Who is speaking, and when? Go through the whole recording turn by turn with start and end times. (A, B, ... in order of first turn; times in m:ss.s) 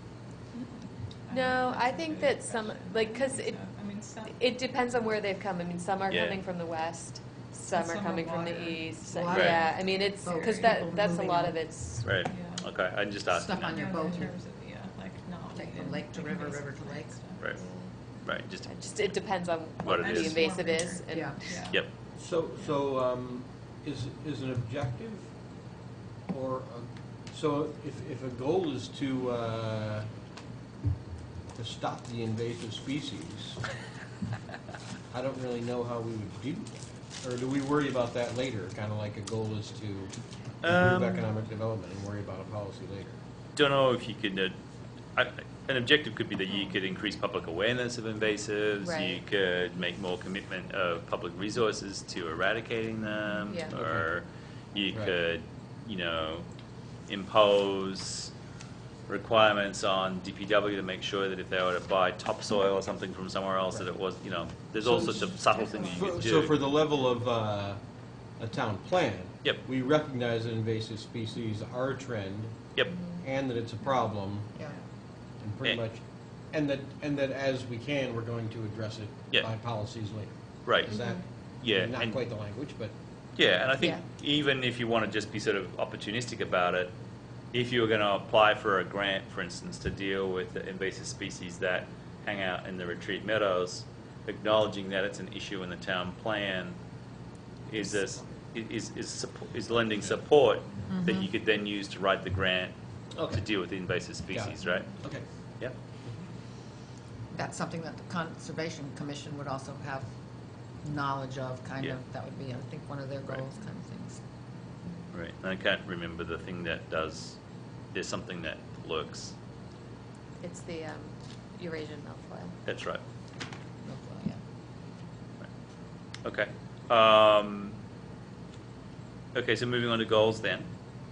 0:00.5-0:04.4 A
0:01.3-0:03.6 B
0:04.3-0:12.2 B
0:06.1-0:06.4 C
0:07.7-0:11.5 A
0:09.1-0:11.6 D
0:09.3-0:09.6 C
0:12.0-0:13.9 C
0:12.2-0:12.7 A
0:13.3-0:14.3 D
0:13.4-0:17.5 A
0:15.5-0:17.2 D
0:17.4-0:19.2 C
0:17.5-0:18.0 B
0:18.6-0:21.6 B
0:19.8-0:20.3 C
0:19.8-0:21.9 A
0:21.1-0:21.4 D
0:22.1-0:25.3 E
0:26.3-0:30.1 E
0:31.5-0:33.6 E
0:35.1-0:43.2 E
0:40.6-0:41.3 C
0:43.6-0:44.6 C
0:45.1-0:56.5 C
0:48.8-0:49.2 B
0:53.5-0:53.7 B
0:53.7-0:54.0 E
0:54.9-0:55.2 E
0:57.1-0:58.3 C
0:59.1-1:06.6 C
1:04.8-1:05.3 E
1:05.1-1:06.2 A
1:05.9-1:07.8 E
1:08.4-1:12.7 E
1:13.2-1:14.6 E
1:15.4-1:22.9 E
1:20.6-1:22.2 C
1:20.9-1:21.2 B
1:23.3-1:26.9 C
1:23.8-1:24.0 B
1:27.5-1:36.8 C
1:37.7-1:45.0 C
1:40.9-1:41.3 D
1:43.2-1:43.5 E
1:44.3-1:45.2 E
1:47.3-1:50.1 D
1:50.6-1:54.2 D
1:55.1-1:59.4 C
2:00.4-2:02.6 B
2:02.6-2:03.0 C
2:03.8-2:04.4 D
2:06.2-2:07.8 C
2:09.3-2:10.7 C